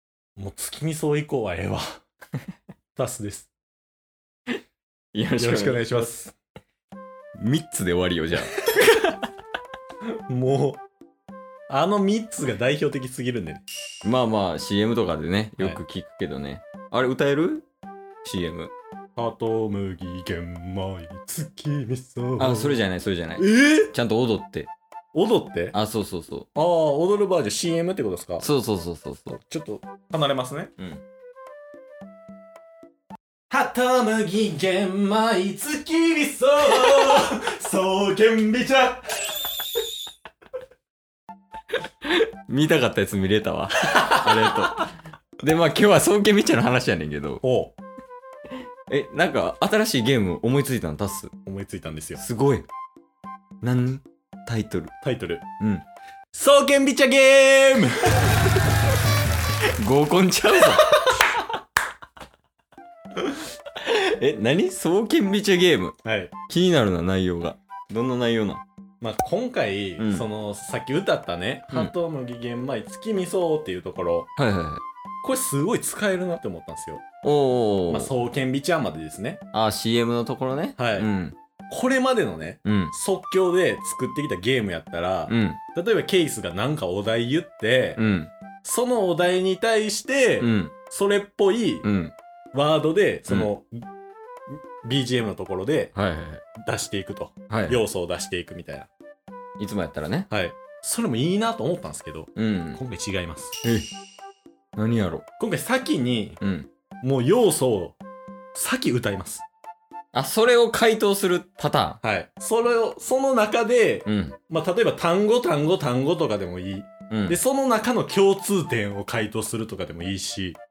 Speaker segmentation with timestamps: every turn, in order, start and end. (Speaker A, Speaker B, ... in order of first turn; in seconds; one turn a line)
Speaker A: 0.4-2.0
Speaker A: 3.0-3.5
Speaker B: 5.1-6.1
Speaker A: 5.4-6.4
Speaker B: 7.4-9.2
Speaker A: 10.3-10.8
Speaker A: 11.7-13.6
Speaker B: 14.0-17.7
Speaker B: 18.2-18.7
Speaker A: 19.2-22.8
Speaker B: 22.4-24.7
Speaker A: 23.4-23.9
Speaker A: 25.1-25.8
Speaker B: 25.7-26.5
Speaker A: 26.5-28.4
Speaker B: 28.4-29.4
Speaker A: 29.5-30.7
Speaker A: 33.5-39.1
Speaker B: 42.0-47.4
Speaker A: 44.0-44.7
Speaker A: 47.4-47.8
Speaker B: 48.9-51.3
Speaker A: 51.5-52.2
Speaker B: 52.2-52.7
Speaker B: 53.6-54.9
Speaker A: 55.0-55.4
Speaker B: 55.6-55.8
Speaker A: 56.3-58.5
Speaker B: 59.8-61.0
Speaker B: 63.8-66.0
Speaker A: 66.0-66.3
Speaker B: 66.5-68.6
Speaker A: 69.0-74.3
Speaker B: 70.0-70.2
Speaker B: 74.4-74.8
Speaker A: 75.2-77.0
Speaker B: 77.2-78.1
Speaker A: 77.9-79.4
Speaker B: 79.5-81.4
Speaker A: 80.8-81.1
Speaker A: 81.7-88.0
Speaker B: 82.7-82.9
Speaker B: 85.3-85.6
Speaker B: 88.0-88.3
Speaker A: 88.6-91.8
Speaker B: 90.4-90.7
Speaker B: 91.8-92.1
Speaker A: 92.5-93.9
Speaker A: 94.5-95.9
Speaker B: 96.0-96.4
Speaker A: 96.6-98.9
Speaker B: 97.5-97.8
Speaker B: 99.6-100.3
Speaker A: 100.3-103.5
Speaker B: 102.4-102.8
Speaker B: 104.8-105.2
Speaker A: 105.4-106.4
Speaker B: 106.4-106.7
Speaker A: 107.0-108.0
Speaker A: 108.5-109.5
Speaker B: 110.1-112.0
Speaker A: 112.0-120.6
Speaker B: 114.1-114.4
Speaker B: 117.1-117.4